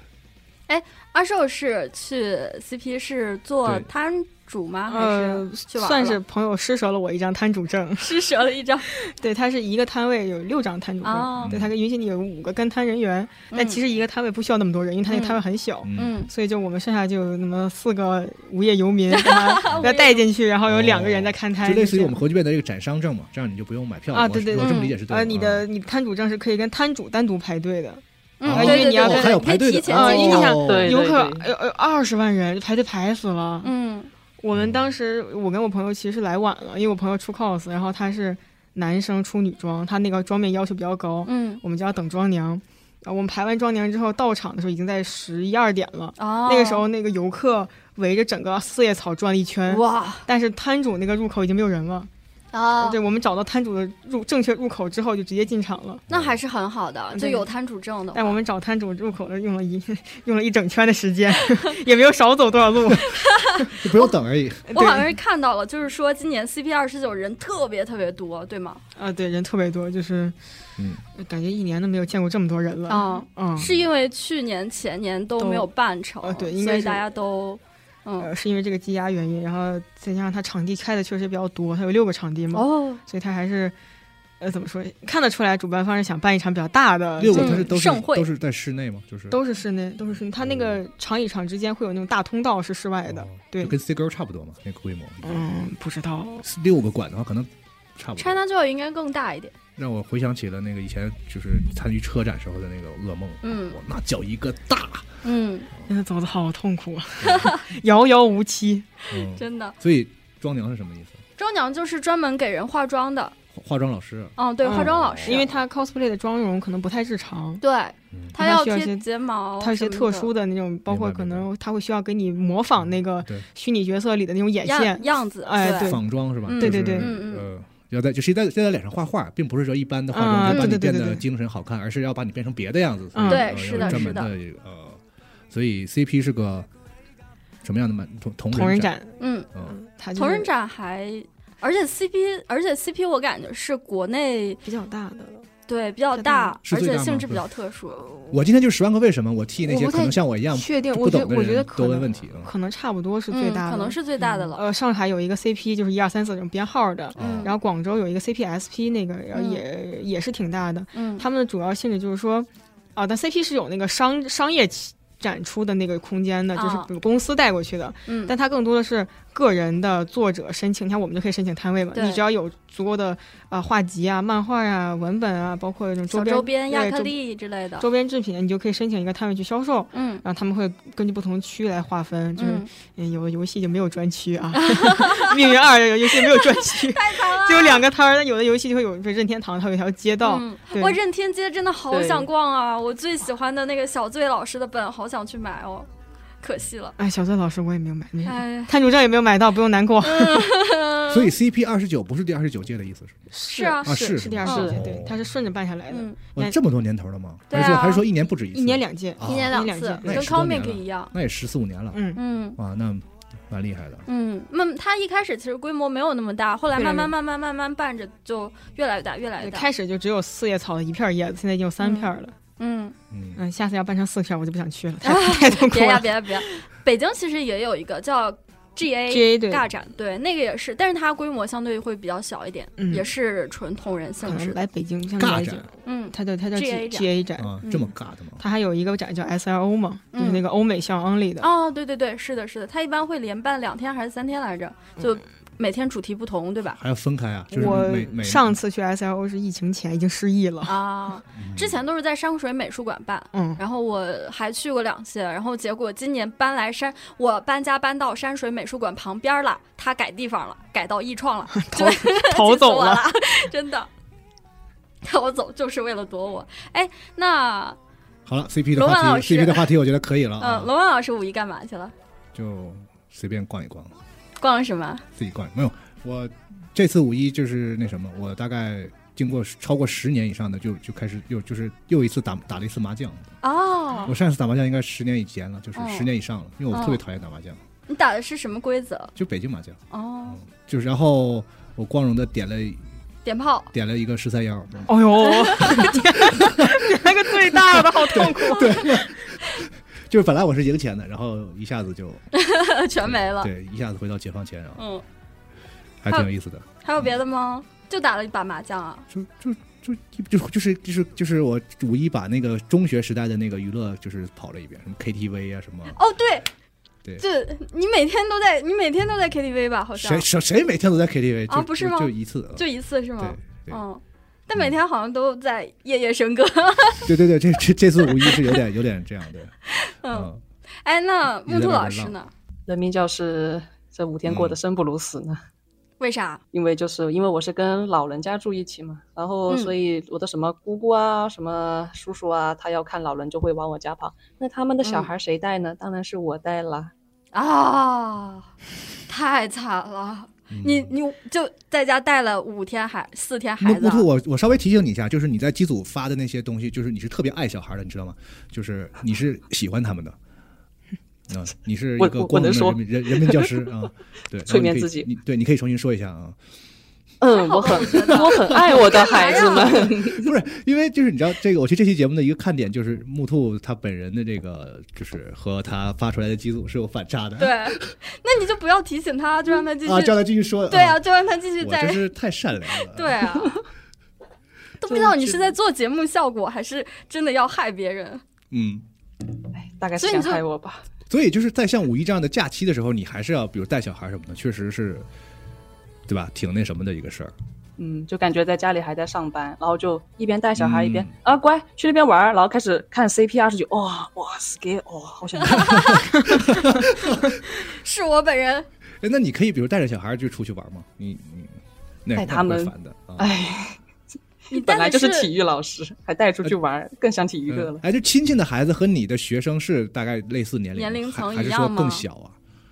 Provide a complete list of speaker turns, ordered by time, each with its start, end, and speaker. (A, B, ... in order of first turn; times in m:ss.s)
0:00.7-0:06.2 A
0:03.6-0:03.9 B
0:04.9-0:08.1 C
0:08.0-0:08.9 A
0:09.0-0:22.2 C
0:11.0-0:11.5 A
0:11.4-0:11.7 B
0:13.5-0:13.8 A
0:15.1-0:15.4 A
0:15.8-0:16.2 B
0:15.9-0:16.3 A
0:19.1-0:20.2 A
0:19.6-0:19.9 B
0:20.6-0:25.7 B
0:24.1-0:33.7 C
0:24.6-0:24.9 A
0:28.4-0:30.6 A
0:28.4-0:31.0 B
0:30.6-0:31.5 D
0:33.6-0:34.1 A
0:34.4-0:52.1 C
0:34.5-0:34.9 B
0:41.2-0:41.6 A
0:46.2-0:46.8 A
0:49.7-0:50.2 A
0:52.5-0:53.0 A
0:52.8-0:56.0 C
0:56.1-0:56.4 B
0:56.1-0:58.4 A
0:57.1-0:57.5 C
0:58.1-1:03.7 C
1:03.7-1:05.1 B
1:04.7-1:05.1 C
1:04.7-1:08.8 A
1:09.0-1:10.4 C
1:11.2-1:13.6 C
1:12.9-1:18.3 A
1:13.6-1:13.9 B
1:15.4-1:15.7 C
1:16.2-1:17.0 C
1:18.2-1:23.8 C
1:22.5-1:23.0 A
1:24.4-1:27.7 C
1:27.2-1:29.4 B
1:27.3-1:28.3 A
1:29.3-1:33.8 C
1:30.4-1:30.8 B
1:33.1-1:35.4 B
1:35.2-1:36.4 C
1:36.4-1:38.4 B
1:38.2-1:39.5 A
1:39.8-1:45.2 B
1:43.4-1:43.8 A
1:45.2-1:45.7 A
1:45.9-1:48.9 C
1:47.3-1:47.6 A
1:49.1-1:51.2 B
1:49.1-1:49.8 A
1:51.4-1:53.3 A
1:53.5-1:55.5 B
1:54.4-1:55.4 A
1:54.6-1:57.6 C
1:57.6-2:00.3 A
1:58.1-1:58.4 B
1:58.3-1:59.0 C
1:59.6-2:07.1 C
2:00.9-2:01.5 B
2:02.8-2:03.4 B
2:04.6-2:05.9 A
2:05.6-2:16.7 B
2:06.4-2:07.5 A
2:10.1-2:11.2 C
2:10.4-2:10.8 A
2:13.1-2:14.1 C
2:13.3-2:14.3 A
2:17.6-2:18.9 B
2:18.5-2:20.5 C
2:19.2-2:19.5 A
2:20.1-2:24.6 A
2:24.6-2:25.5 C
2:25.7-2:28.0 A
2:26.1-2:26.6 C
2:26.6-2:27.5 B
2:27.9-2:28.4 C
2:28.3-2:32.5 B
2:29.6-2:57.1 C
2:33.3-2:34.6 A
2:37.2-2:37.5 B
2:37.2-2:37.5 A
2:39.3-2:39.6 A
2:40.9-2:41.2 A
2:46.5-2:46.9 A
2:48.1-2:48.3 A
2:51.9-2:52.2 A
2:56.1-2:57.9 A
2:57.8-3:11.0 C
2:59.9-3:00.2 A
3:02.4-3:02.7 A
3:04.6-3:05.3 A
3:06.2-3:07.8 A
3:10.2-3:15.9 A
3:11.9-3:12.3 D
3:16.4-3:17.0 A
3:17.0-3:20.5 C
3:18.2-3:18.7 A
3:20.0-3:21.3 A
3:21.1-3:23.2 B
3:23.3-3:26.6 C
3:23.5-3:23.9 A
3:23.8-3:25.2 B
3:24.4-3:24.8 A
3:25.9-3:26.2 A
3:26.4-3:32.0 B
3:27.5-3:28.0 A
3:27.5-3:27.8 C
3:28.5-3:30.1 C
3:29.2-3:31.1 A
3:31.9-3:32.2 C
3:32.1-3:32.6 A
3:32.6-3:34.0 B
3:34.0-3:39.7 A
3:36.8-3:37.1 C
3:39.4-3:42.3 C
3:41.8-3:42.9 A
3:43.1-3:43.4 B
3:43.4-3:46.5 C
3:45.0-3:54.6 A
3:49.1-3:49.6 C
3:52.8-3:53.1 C
3:54.2-3:57.8 C
3:55.2-3:55.6 B
3:55.8-3:57.1 A
3:57.4-3:58.4 B
3:58.4-4:01.5 C
4:00.1-4:00.4 A
4:01.4-4:06.8 A
4:06.8-4:08.6 B
4:07.5-4:10.8 C
4:10.6-4:23.9 A
4:11.3-4:11.8 B
4:13.3-4:13.6 C
4:21.5-4:23.1 C
4:25.0-4:27.8 A
4:28.2-4:30.7 B
4:28.8-4:29.8 A
4:30.4-4:31.9 A
4:32.3-4:34.0 B
4:34.4-4:35.0 A
4:35.2-4:43.3 B
4:43.4-4:44.1 A
4:44.0-4:47.6 B
4:45.8-4:46.1 A
4:46.7-4:47.0 A
4:47.9-4:49.1 A
4:49.1-4:52.8 B
4:49.9-4:50.4 A
4:53.2-4:53.7 A
4:53.7-4:56.9 B
4:54.9-4:59.1 C
4:55.2-4:55.9 A
4:57.4-5:02.2 B
4:58.1-4:58.9 A
5:02.3-5:03.5 A
5:03.0-5:04.8 B
5:04.8-5:05.0 A
5:06.0-5:07.1 B
5:06.8-5:09.0 A
5:09.1-5:16.0 B
5:15.9-5:16.5 A
5:17.2-5:20.2 A
5:19.9-5:22.6 B
5:21.5-5:27.1 A
5:23.2-5:23.8 B
5:27.0-5:29.5 B
5:28.2-5:28.6 A
5:29.8-5:30.3 A
5:30.1-5:30.4 B
5:30.8-5:32.3 A
5:31.2-5:32.1 B
5:32.7-5:35.4 D
5:34.2-5:34.6 B
5:36.0-5:36.4 A
5:36.5-5:46.9 D
5:44.8-5:45.1 A
5:47.3-5:48.4 A
5:49.1-5:54.1 A
5:50.5-5:50.9 B
5:53.6-6:00.2 B
6:01.3-6:06.4 B
6:02.0-6:03.6 D
6:04.4-6:05.1 D
6:07.2-6:10.3 D
6:07.3-6:09.8 A
6:08.2-6:08.9 B
6:09.6-6:18.0 B
6:17.4-6:22.0 A
6:19.8-6:21.0 B
6:21.6-6:23.2 B
6:22.9-6:23.6 A
6:24.8-6:28.2 A
6:24.9-6:25.5 D
6:28.5-6:28.9 B
6:29.6-6:30.8 D
6:30.0-6:30.4 A
6:31.1-6:35.1 B
6:36.1-6:37.3 B
6:37.8-6:46.4 D
6:40.6-6:41.1 B
6:45.4-6:46.1 A
6:45.5-6:47.4 B
6:47.5-6:48.7 A
6:49.0-6:53.3 B
6:52.1-6:53.8 D
6:54.5-6:55.3 A
6:54.5-6:57.8 D
6:57.5-7:02.4 B
7:00.8-7:02.0 A